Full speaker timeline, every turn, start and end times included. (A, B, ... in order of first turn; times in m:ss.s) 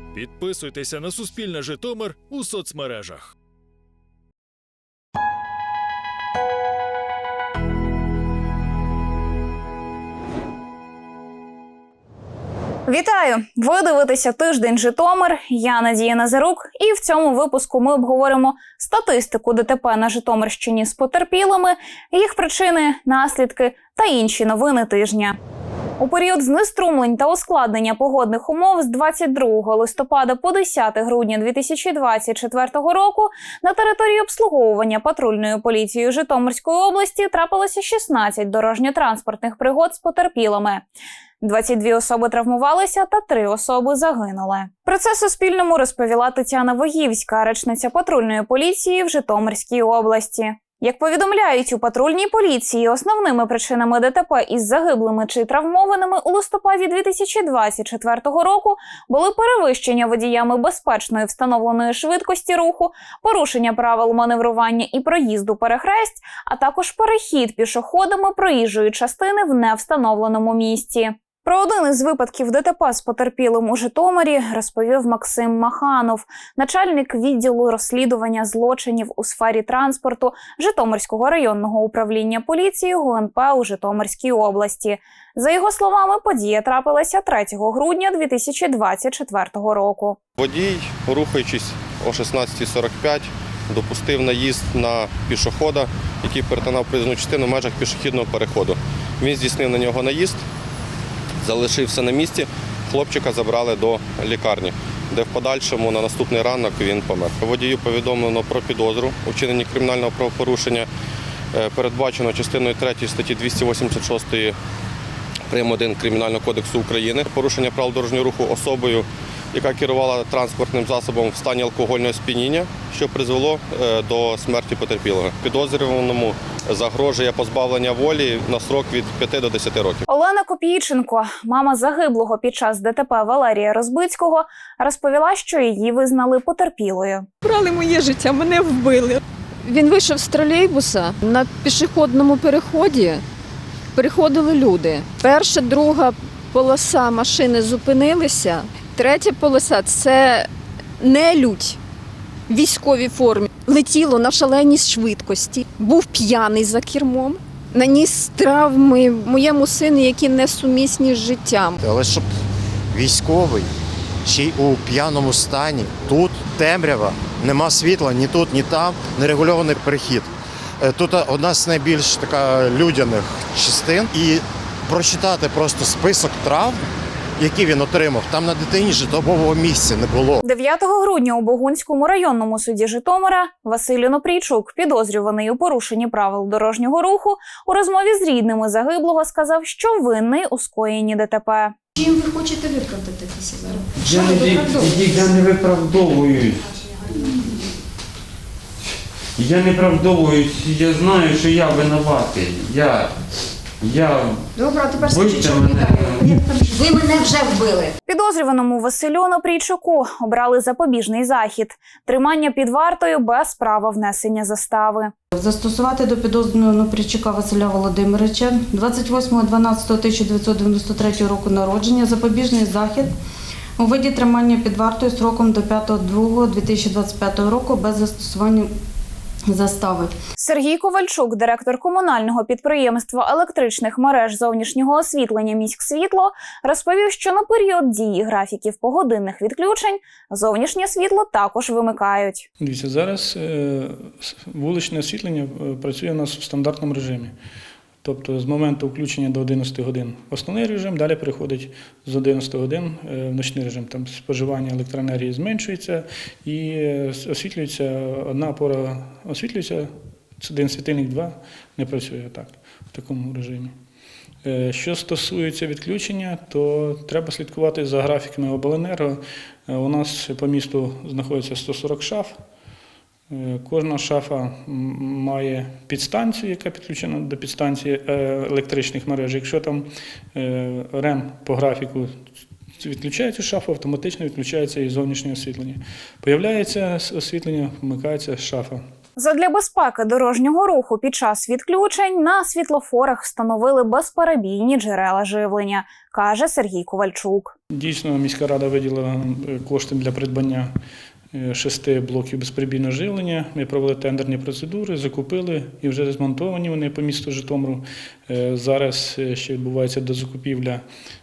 0:00.2-0:03.2 A
0:00.6-0:02.7 B
0:12.9-0:25.4 C
0:26.0-0:40.8 C
0:41.4-1:30.2 C
1:30.4-1:40.4 D
1:41.4-1:50.9 D
1:51.5-1:54.6 D
1:55.5-2:10.0 D
2:10.1-2:17.3 C
2:17.4-2:23.2 E
2:23.9-2:30.5 E
2:31.0-2:31.8 E
2:32.5-2:41.8 E
2:41.8-2:42.3 F
2:42.9-2:43.7 F
2:44.2-2:50.3 F
2:50.8-2:56.8 F
2:57.4-3:00.4 F
3:00.4-3:11.8 C
3:12.0-3:14.4 G
3:14.0-3:16.6 B
3:19.4-3:23.1 B
3:23.8-3:24.4 B
3:25.0-3:26.4 B
3:28.1-3:35.1 C
3:35.4-3:43.1 H
3:43.8-3:48.7 H
3:49.5-3:50.1 H
3:50.4-4:02.5 C
4:02.6-4:07.3 I
4:08.0-4:23.7 I
4:24.4-4:32.4 I
4:33.3-4:42.1 I
4:42.8-4:48.8 I
4:49.2-4:57.5 C
4:57.7-5:00.7 I
5:01.3-5:10.8 I